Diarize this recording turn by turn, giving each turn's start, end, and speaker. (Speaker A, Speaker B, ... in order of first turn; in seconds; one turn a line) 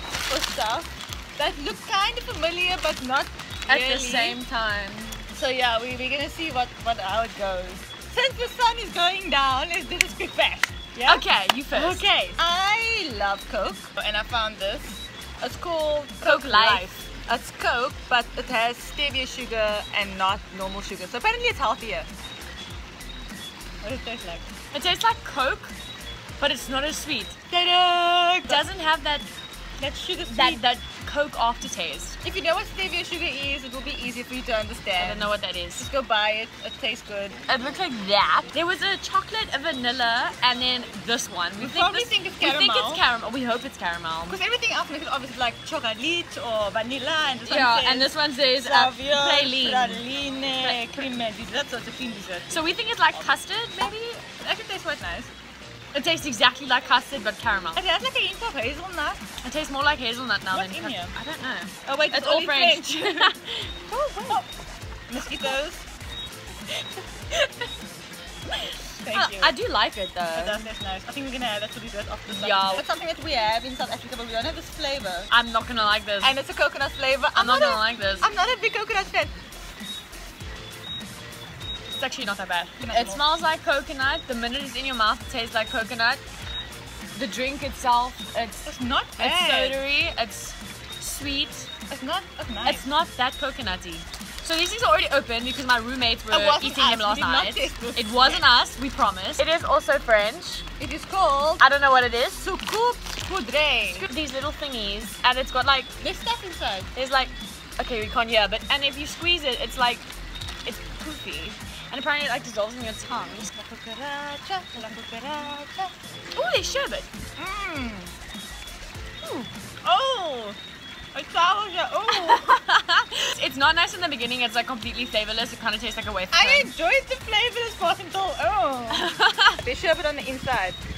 Speaker A: 0.2-4.4
Speaker B: 3.7-5.3
Speaker A: 5.3-22.1
Speaker B: 11.1-12.1
Speaker B: 16.2-17.0
Speaker A: 23.8-24.5
Speaker B: 24.7-25.7
Speaker B: 26.4-27.4
Speaker A: 27.5-28.6
Speaker B: 28.4-29.3
Speaker A: 29.8-30.6
Speaker B: 30.3-32.2
Speaker A: 32.2-37.4
Speaker B: 35.0-35.9
Speaker B: 37.5-44.4
Speaker A: 41.6-43.0
Speaker A: 44.3-53.3
Speaker B: 47.5-50.0
Speaker B: 50.6-51.1
Speaker B: 52.5-54.3
Speaker A: 54.4-55.3
Speaker B: 55.9-57.8
Speaker A: 57.8-59.2
Speaker B: 59.4-64.4
Speaker A: 60.5-61.1
Speaker A: 61.9-63.4
Speaker A: 63.9-64.5
Speaker A: 65.1-65.8
Speaker B: 65.3-65.5
Speaker B: 68.6-70.7
Speaker A: 69.0-69.6
Speaker A: 70.3-75.3
Speaker B: 72.3-72.8
Speaker B: 75.3-76.3
Speaker A: 76.2-79.3
Speaker B: 77.3-78.3
Speaker B: 81.9-86.2
Speaker A: 82.8-83.3
Speaker B: 87.2-91.7
Speaker A: 88.7-89.8
Speaker A: 91.9-92.9
Speaker B: 92.6-100.7
Speaker A: 96.3-98.4
Speaker A: 100.8-101.7
Speaker B: 101.6-102.5
Speaker A: 102.4-104.1
Speaker B: 103.9-105.9
Speaker A: 106.0-106.9
Speaker B: 106.9-110.1
Speaker B: 110.7-113.5
Speaker A: 113.5-115.9
Speaker B: 116.3-117.1
Speaker A: 117.4-118.1
Speaker B: 119.2-119.5
Speaker A: 119.8-120.6
Speaker A: 121.1-122.6
Speaker B: 122.1-126.7
Speaker A: 126.3-129.1
Speaker B: 128.9-129.6
Speaker A: 129.6-130.8